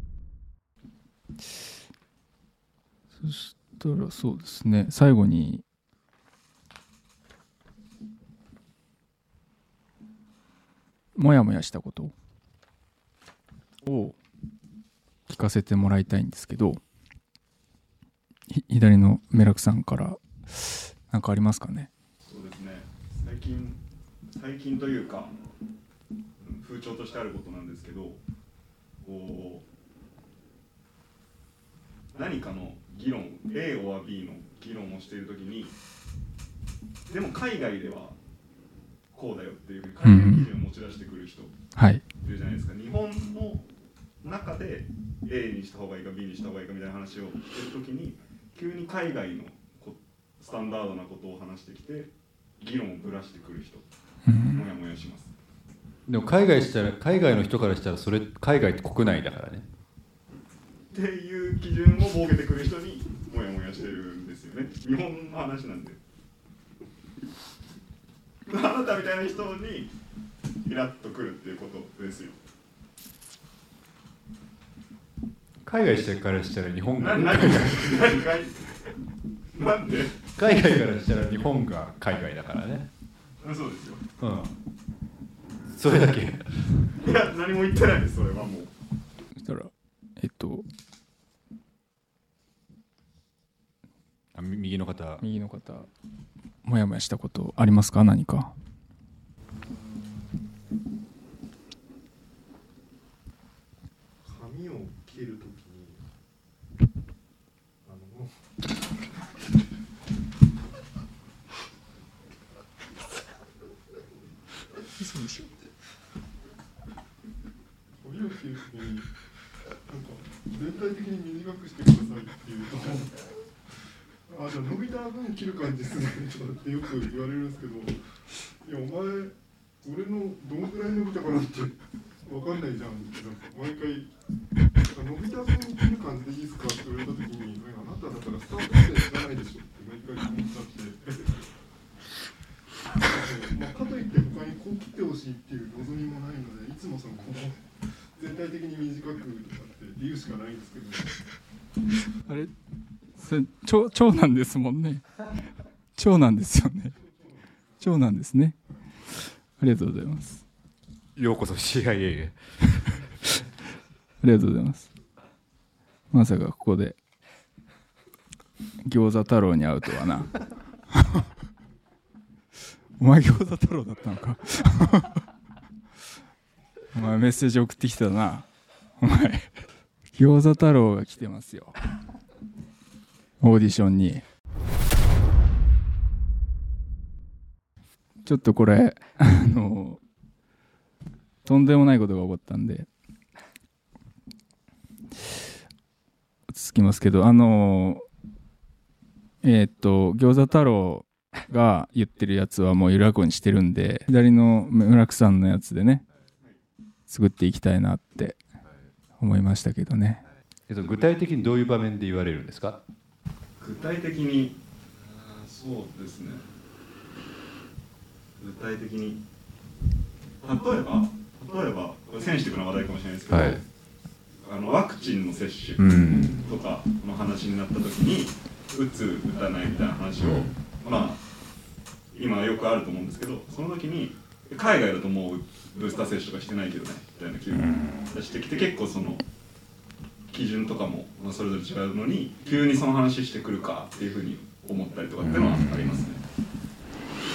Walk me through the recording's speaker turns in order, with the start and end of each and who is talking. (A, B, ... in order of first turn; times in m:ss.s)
0:03.2-0:05.6 A
0:11.2-0:12.1 A
0:13.8-0:14.2 A
0:15.3-0:16.8 A
0:18.5-0:21.9 A
0:22.3-0:23.8 B
0:24.3-0:25.3 B
0:26.4-0:28.2 B
0:29.0-0:29.7 B
0:32.1-0:35.7 B
0:37.1-0:38.2 B
0:39.1-0:41.6 B
0:40.0-0:40.5 A
0:41.8-0:42.0 A
0:42.2-0:43.7 B
0:44.2-0:53.8 B
0:54.3-0:54.6 A
0:54.5-0:55.3 B
0:56.1-0:59.7 C
1:00.9-1:06.0 B
1:08.5-1:09.9 B
1:10.6-1:12.4 B
1:15.6-1:18.3 C
1:17.0-1:18.7 B
1:19.5-1:20.2 B
1:20.3-1:22.9 C
1:23.4-1:24.1 B
1:24.2-1:24.5 C
1:25.7-1:26.8 C
1:27.0-1:28.7 B
1:29.4-1:30.7 A
1:34.3-1:35.2 C
1:35.2-1:35.9 A
1:36.6-1:38.5 A
1:39.4-1:40.8 D
1:44.2-1:46.0 D
1:47.8-1:48.3 D
1:55.0-1:55.5 A
1:58.0-1:59.2 D
1:59.9-2:03.3 D
2:04.3-2:14.1 D
2:14.9-2:21.4 D
2:23.0-2:31.2 D
2:32.3-2:32.5 A
2:33.2-2:35.2 A
2:36.0-2:37.0 A
2:37.0-2:37.8 D
2:37.8-2:38.6 A
2:39.6-2:40.4 A
2:41.2-2:43.0 C
2:44.2-2:44.9 A
2:46.1-2:47.0 A
2:48.8-2:50.4 A
2:50.9-2:51.2 A
2:53.0-2:55.2 A
2:56.9-2:58.5 A
2:59.0-2:59.5 A
3:00.2-3:01.7 A
3:03.4-3:04.2 A
3:08.2-3:10.0 A
3:11.4-3:12.9 A
3:16.5-3:18.0 A
3:19.4-3:26.0 A
3:27.1-3:28.4 A
3:29.2-3:30.2 A
3:30.7-3:32.8 C
3:33.6-3:36.5 B
3:38.4-3:39.2 B
3:40.4-3:43.7 B
3:43.3-3:43.6 C
3:44.4-3:51.2 B
3:45.8-3:46.5 C
3:50.2-3:50.5 C
3:52.1-3:59.2 B
3:57.5-3:58.1 C
4:00.3-4:06.2 B
4:05.2-4:06.1 C